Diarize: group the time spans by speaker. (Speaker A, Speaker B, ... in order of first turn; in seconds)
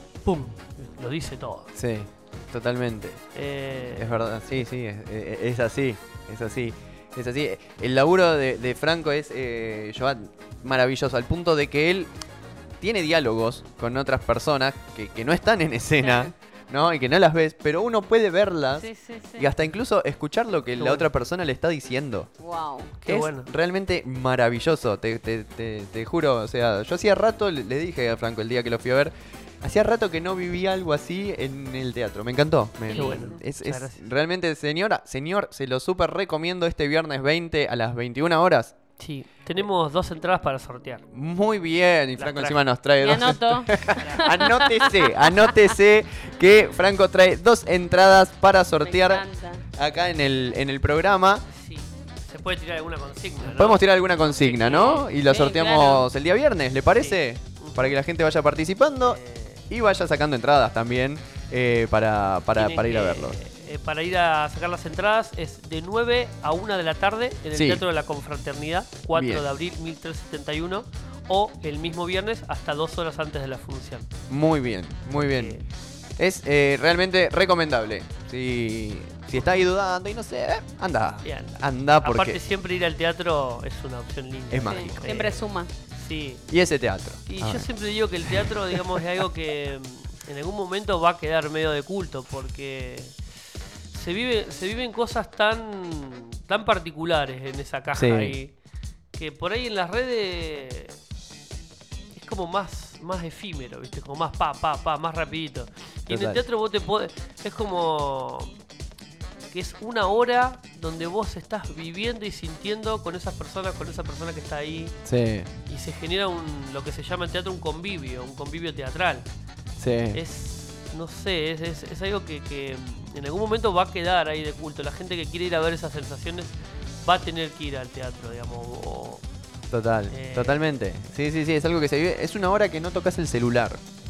Speaker A: 0.2-1.7, 3.3-4.2, 20.8-21.1, 23.0-23.5, 32.9-34.0, 39.0-41.0, 42.2-43.4, 43.9-44.3, 51.5-55.1, 57.0-58.0, 59.0-59.6, 62.5-74.1, 75.1-75.6, 79.3-79.6, 81.2-86.5, 87.3-93.1, 93.9-98.5, 99.1-101.0, 102.1-108.6, 109.5-115.0, 115.7-119.3, 120.1-129.2, 130.1-130.7
Speaker B: 1.7-3.2, 3.9-12.1, 12.8-18.9, 19.4-22.3, 23.0-38.7, 41.1-49.2, 49.8-51.4, 53.4-59.2, 59.7-63.4, 67.5-67.8, 69.1-69.4, 74.3-75.6, 76.2-82.4, 84.5-85.2, 86.5-87.7, 88.2-89.0, 97.9-98.4, 106.1-106.4, 115.0-115.5, 119.8-120.2, 129.7-133.8
Speaker C: 16.0-16.3, 18.7-19.5, 22.4-22.9, 32.9-33.4, 43.0-45.7, 48.8-49.6, 54.6-56.1, 84.6-85.7